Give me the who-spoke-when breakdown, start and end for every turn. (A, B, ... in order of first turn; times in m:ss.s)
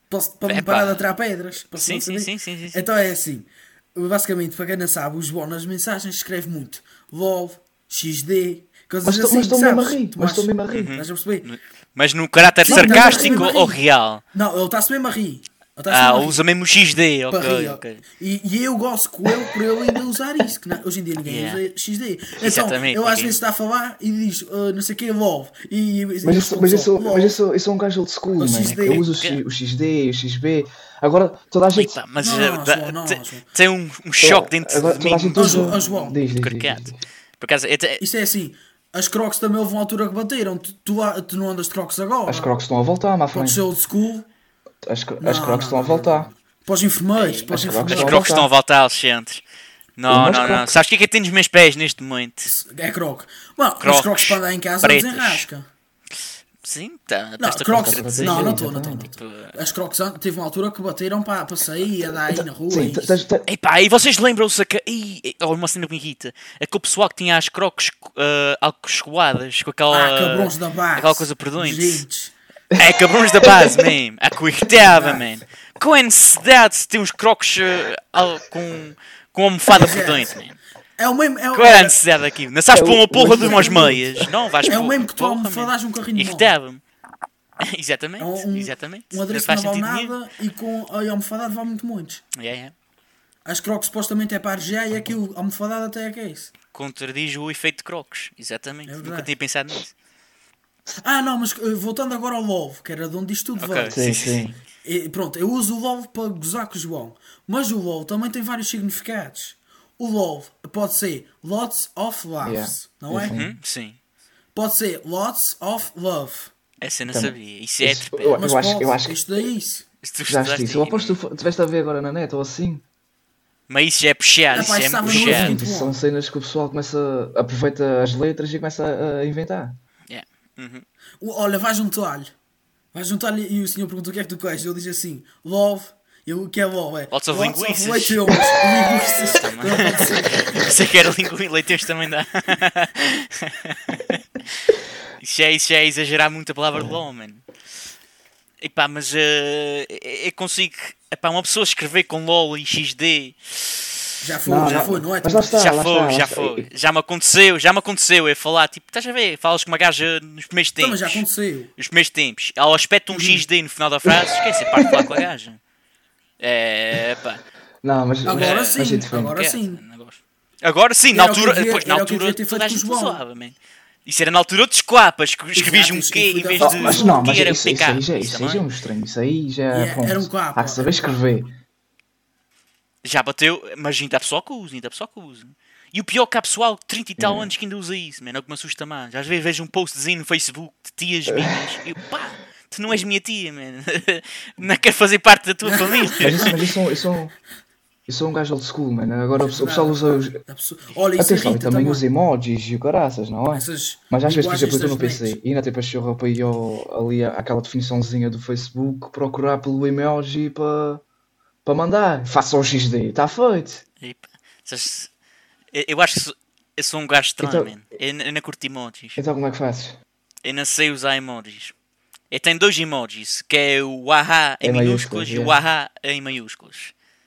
0:00.1-0:11.5 A
0:00.5-0:01.0 B
0:01.7-0:02.8 B
0:09.0-0:11.0 C
0:10.7-0:14.2 B
0:12.6-0:13.8 A
0:12.7-0:13.5 C
0:14.3-0:16.4 A
0:15.9-0:18.0 B
0:17.3-0:27.4 A
0:21.2-0:21.6 B
0:22.4-0:23.4 B
0:26.2-0:32.0 C
0:28.4-0:29.1 A
0:28.6-0:29.4 B
0:31.7-0:38.0 B
0:32.2-0:33.4 A
0:34.2-0:37.0 C
0:35.4-0:36.2 A
0:38.0-0:42.5 A
0:42.3-0:43.6 C
0:43.3-0:44.3 A
0:44.8-0:46.3 C
0:45.2-0:48.3 A
0:47.2-0:49.4 B
0:47.5-0:48.5 C
0:50.0-0:52.5 B
0:50.1-0:50.8 C
0:52.4-0:55.7 A
0:53.8-0:55.5 B
0:56.6-0:59.6 B
0:57.4-1:03.2 A
0:57.7-0:59.1 C
1:02.3-1:03.5 C
1:03.5-1:12.0 B
1:09.9-1:12.3 A
1:12.7-1:13.9 C
1:12.8-1:20.6 B
1:14.8-1:15.2 A
1:19.8-1:20.3 A
1:21.0-1:22.0 A
1:21.5-1:26.8 B
1:22.7-1:24.3 C
1:23.3-1:24.0 A
1:24.7-1:26.5 A
1:27.6-1:30.2 B
1:28.2-1:32.2 A
1:32.4-1:32.7 B
1:33.4-1:36.5 A
1:36.7-1:39.9 B
1:38.9-1:39.3 A
1:41.0-1:44.0 A
1:43.6-1:44.6 B
1:43.9-1:44.5 C
1:44.8-1:53.4 A
1:52.4-1:53.6 C
1:53.3-1:54.0 B
1:54.6-1:56.5 A
1:56.8-1:58.4 B
1:57.1-1:59.2 C
1:58.4-1:59.9 A
2:00.0-2:01.2 B
2:00.3-2:02.8 C
2:03.7-2:05.6 B
2:04.5-2:06.0 A
2:05.0-2:09.8 C
2:10.1-2:10.8 B
2:11.2-2:12.3 A
2:12.9-2:20.6 A
2:17.1-2:18.3 B
2:19.0-2:24.2 B
2:25.2-2:27.4 B
2:28.6-2:34.0 B
2:34.2-2:35.7 A
2:34.5-2:36.7 C
2:35.5-2:41.2 B
2:40.8-2:41.7 A
2:41.8-2:45.6 B
2:43.1-2:43.4 A
2:44.0-2:45.2 C
2:46.4-2:47.4 B
2:47.8-2:49.4 C
2:48.2-2:49.8 A
2:48.3-2:58.6 B
2:51.1-2:53.2 A
2:55.6-2:57.3 A
2:56.6-3:01.5 C
2:59.7-3:01.2 A
3:03.0-3:16.6 B
3:07.2-3:07.5 C
3:11.3-3:11.6 C
3:15.6-3:16.5 A
3:16.2-3:17.3 C
3:18.1-3:20.4 C
3:19.4-3:22.0 A
3:21.2-3:31.0 C
3:23.5-3:25.4 A
3:31.6-3:33.8 C
3:34.0-3:35.1 B
3:35.7-3:39.2 B
3:37.4-3:37.7 C
3:39.2-3:40.0 C
3:40.4-3:41.7 B
3:42.3-3:46.9 B
3:44.6-3:45.6 C